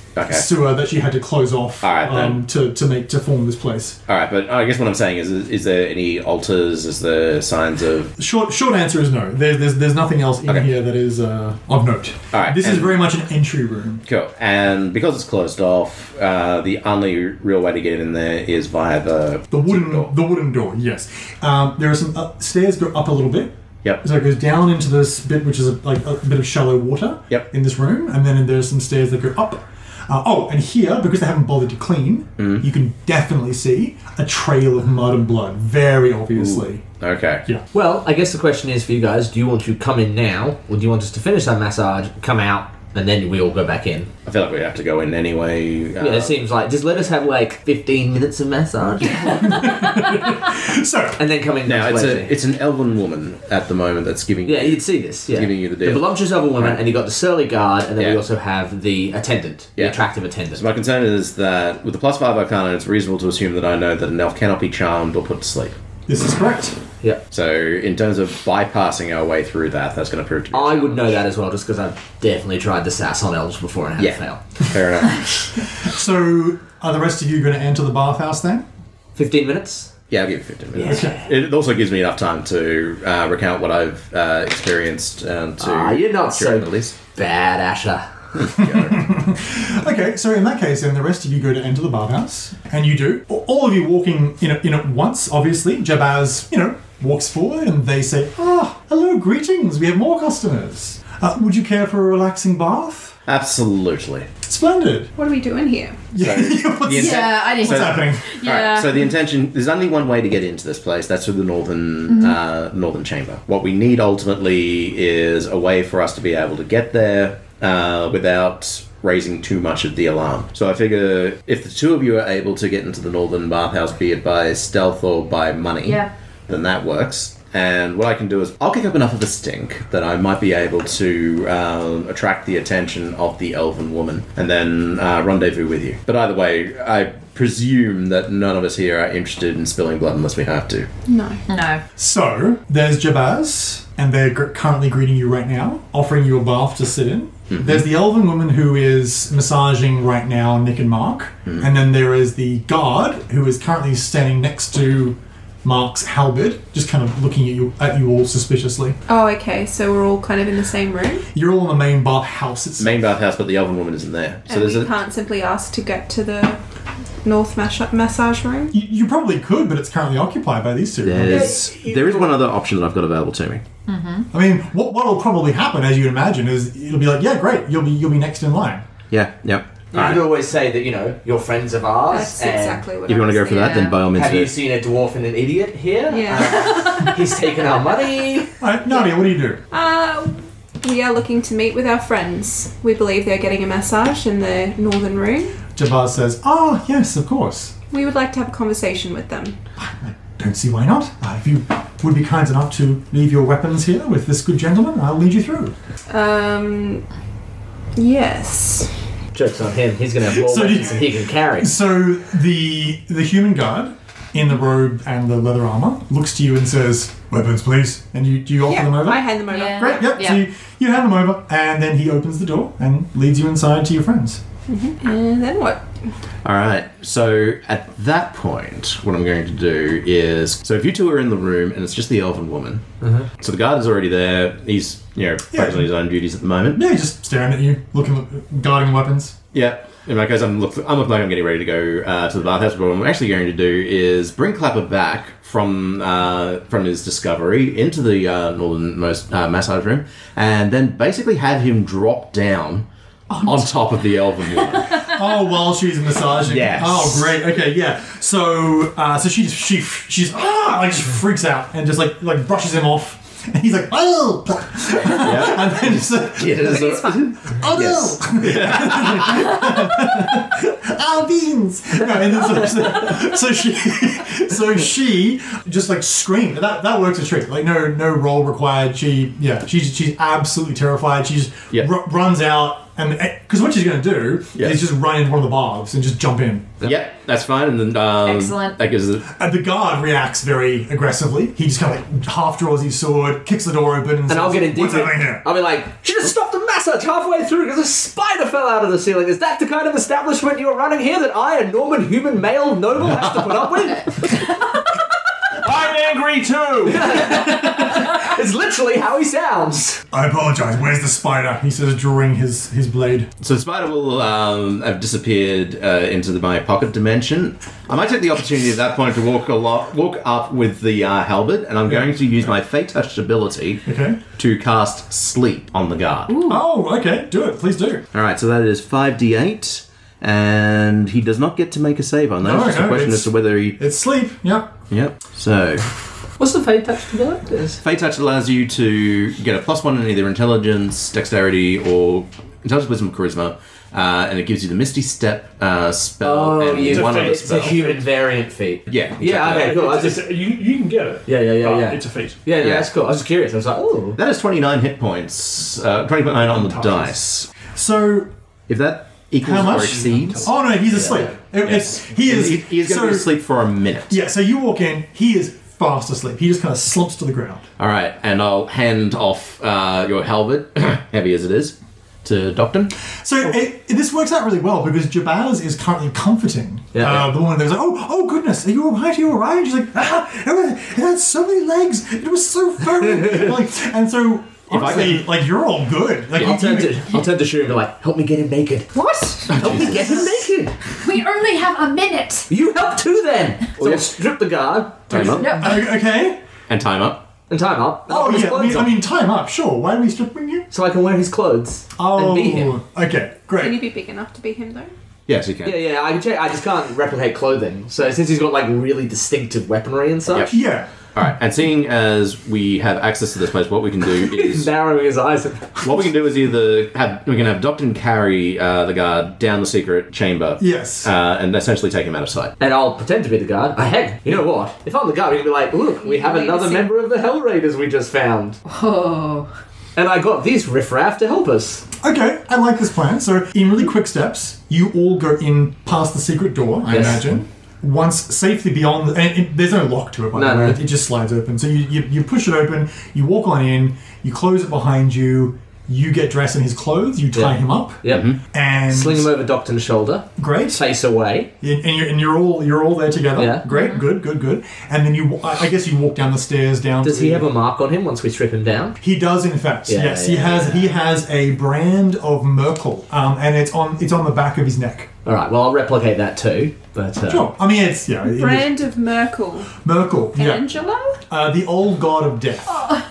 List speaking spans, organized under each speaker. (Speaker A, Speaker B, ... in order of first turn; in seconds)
Speaker A: 0.2-0.5, 1.8-2.4, 4.1-8.1, 12.3-13.0, 14.1-20.1, 32.4-32.7, 36.4-37.4, 44.3-46.4, 51.7-56.8, 59.8-65.8, 67.3-71.2, 74.0-75.4, 80.1-87.0, 88.3-89.1, 103.3-104.3, 106.2-140.9, 147.5-147.9, 162.8-164.9, 171.0-173.6, 179.1-180.2, 183.1-184.5, 226.4-232.8, 233.4-236.8, 239.5-252.9, 253.4-255.1, 256.4-257.3, 265.1-269.7, 286.8-289.3, 313.4-326.4, 328.1-333.8, 334.9-335.9, 337.8-347.8, 348.9-349.7, 352.6-352.9, 354.2-357.5, 358.7-360.5, 361.6-364.2, 367.8-372.9, 384.7-385.3, 389.5-390.1, 393.8-394.1, 395.1-395.7, 396.7-397.2, 405.3-405.8, 410.3-410.6, 411.1-414.7, 415.8-422.5, 448.1-448.4
Speaker B: 0.3-4.0, 8.2-14.0, 19.5-36.8, 49.2-51.2, 66.1-66.8, 75.8-78.7, 80.8-81.2, 88.6-103.2, 104.4-105.1, 106.1-108.4, 142.0-159.0, 161.3-163.1, 168.7-171.6, 174.3-178.9, 188.6-189.6, 195.8-197.8, 199.8-205.8, 210.3-224.4, 235.5-235.9, 236.7-239.4, 254.9-286.7, 289.3-295.5, 310.1-313.3, 321.9-322.3, 323.9-324.2, 326.4-328.1, 332.4-334.8, 357.7-358.3, 359.4-363.3, 364.1-367.7, 373.2-387.1, 395.5-396.4, 398.1-400.7, 402.0-403.8, 410.5-410.9, 420.6-421.1, 432.0-449.3, 450.4-450.8, 451.6-457.5, 459.0-465.1, 467.3-468.8, 469.8-470.7, 471.3-472.9
Speaker C: 37.7-44.1, 46.0-49.7, 51.2-52.3, 54.5-60.7, 70.5-74.4, 79.2-79.9, 80.8-81.2, 85.6-88.1, 171.3-172.3, 179.9-182.8, 184.1-188.5, 209.3-211.7, 294.3-304.5, 306.8-310.0, 336.4-337.8, 346.2-350.2, 351.3-354.2, 360.9-361.3, 376.9-377.3, 386.3-388.9, 389.5-390.7, 392.5-395.4, 397.5-398.9, 400.7-402.8, 405.6-410.5, 414.2-415.9, 422.6-428.6, 430.0-431.9, 436.9-437.2, 440.4-440.8, 447.4-448.3, 448.9-451.5, 453.4-453.6, 457.0-459.0, 459.9-460.9, 465.2-467.5
Speaker D: 105.2-106.1, 141.1-141.4, 159.1-161.2, 164.5-166.6, 167.2-168.7, 182.1-183.9, 186.1-187.1, 189.7-195.6, 197.9-199.6, 206.1-207.1, 208.0-208.9, 218.6-220.2, 224.7-225.9, 266.6-267.4, 389.0-389.5, 403.6-404.9, 425.9-426.9, 468.2-469.8, 470.4-471.2
Speaker E: 106.9-109.1, 112.1-112.4, 125.8-126.1, 141.5-141.8, 173.9-174.3, 183.6-183.9, 219.5-220.4, 288.2-288.8, 326.3-326.6, 389.3-390.3, 391.0-392.5, 395.3-395.8, 428.7-429.5, 453.7-454.0
Speaker F: 305.6-307.4, 346.9-348.1, 349.4-352.4, 356.4-357.1, 359.7-360.5